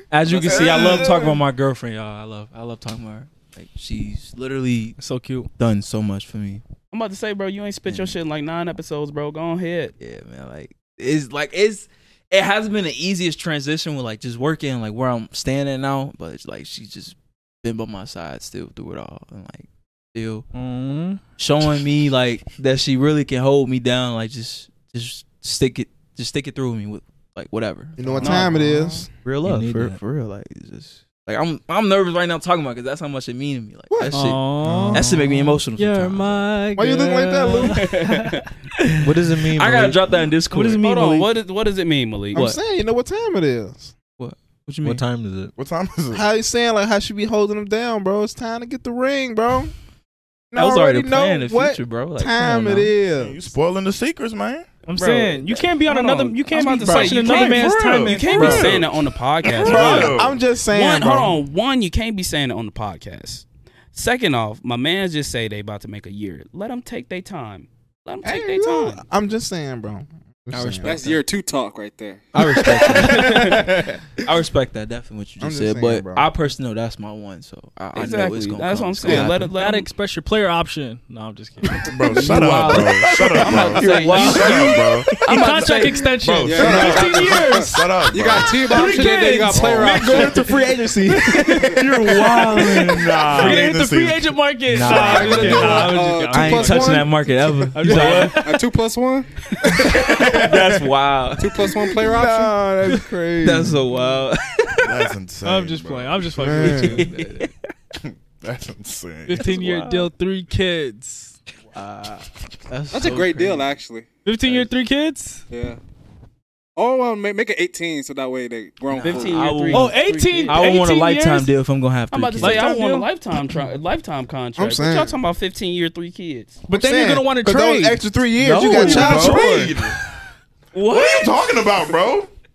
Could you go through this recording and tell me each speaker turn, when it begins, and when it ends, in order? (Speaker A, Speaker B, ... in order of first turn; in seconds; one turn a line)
Speaker A: 0.1-5.0
Speaker B: 0.3-0.9
Speaker C: 0.5-1.4
Speaker D: 5.0-5.5
Speaker A: 5.6-6.6
Speaker E: 6.9-9.9
Speaker A: 7.9-8.2
Speaker A: 10.0-20.4
Speaker D: 20.5-21.2
Speaker A: 21.4-28.4
Speaker C: 28.0-29.1
Speaker E: 28.2-28.5
Speaker F: 28.2-29.0
Speaker A: 29.2-36.5
Speaker G: 29.4-30.0
Speaker C: 33.9-35.1
Speaker D: 34.1-35.1
Speaker D: 35.8-38.3
Speaker C: 36.8-37.8
Speaker E: 37.7-38.5
Speaker A: 38.8-41.3
Speaker G: 39.0-40.1
Speaker D: 40.5-41.2
Speaker E: 40.8-42.5
Speaker C: 42.3-43.9
Speaker A: 44.2-45.0
Speaker G: 44.8-45.5
Speaker F: 45.5-46.2
Speaker C: 46.1-49.7
Speaker C: 50.5-53.4
Speaker A: 50.5-52.9
Speaker F: 53.2-54.7
Speaker D: 54.9-58.8
Speaker E: 55.0-60.2
Speaker F: 56.9-58.9
Speaker F: 59.4-60.4
Speaker C: 59.6-61.4
Speaker E: 60.7-69.0
Speaker C: 68.2-71.1
Speaker A: 70.5-71.2
Speaker B: 70.8-72.3
Speaker A: 72.3-79.5
Speaker C: 72.4-74.0
Speaker E: 73.0-73.4
Speaker C: 75.4-76.3
Speaker E: 77.9-79.9
Speaker D: 79.1-81.9
Speaker F: 81.9-88.7
Speaker A: 82.2-84.8
Speaker E: 83.4-86.0
Speaker D: 83.9-97.1
Speaker B: 86.4-90.5
Speaker C: 86.6-87.0
Speaker C: 88.8-89.1
Speaker C: 89.7-91.8
Speaker F: 91.7-94.3
Speaker A: 93.2-93.6
Speaker G: 94.7-95.8
Speaker A: 94.8-95.6
Speaker B: 94.9-97.1
Speaker F: 95.2-95.7
Speaker C: 95.2-95.9
Speaker A: 96.3-98.4
Speaker C: 96.4-97.1
Speaker D: 97.7-98.6
Speaker F: 97.9-98.3
Speaker B: 97.9-99.3
Speaker C: 99.6-100.8
Speaker A: 99.6-101.5
Speaker B: 101.4-102.6
Speaker C: 101.6-103.8
Speaker A: 103.4-105.0
Speaker F: 104.8-106.7
Speaker D: 105.4-107.5
Speaker C: 106.3-107.0
Speaker A: 106.7-107.5
Speaker F: 108.0-109.5
Speaker D: 109.3-111.4
Speaker A: 109.4-110.1
Speaker A: 111.7-113.7
Speaker B: 112.9-114.7
Speaker D: 114.2-115.4
Speaker B: 115.5-115.8
Speaker B: 116.8-119.5
Speaker A: 118.9-122.8
Speaker E: 119.0-120.7
Speaker D: 119.7-121.5
Speaker E: 122.1-126.6
Speaker D: 122.4-123.1
Speaker C: 124.6-125.2
Speaker D: 126.7-128.0
Speaker C: 126.7-129.7
Speaker A: 128.4-129.9
Speaker F: 128.6-129.9
Speaker A: 130.7-131.4
Speaker F: 130.8-132.3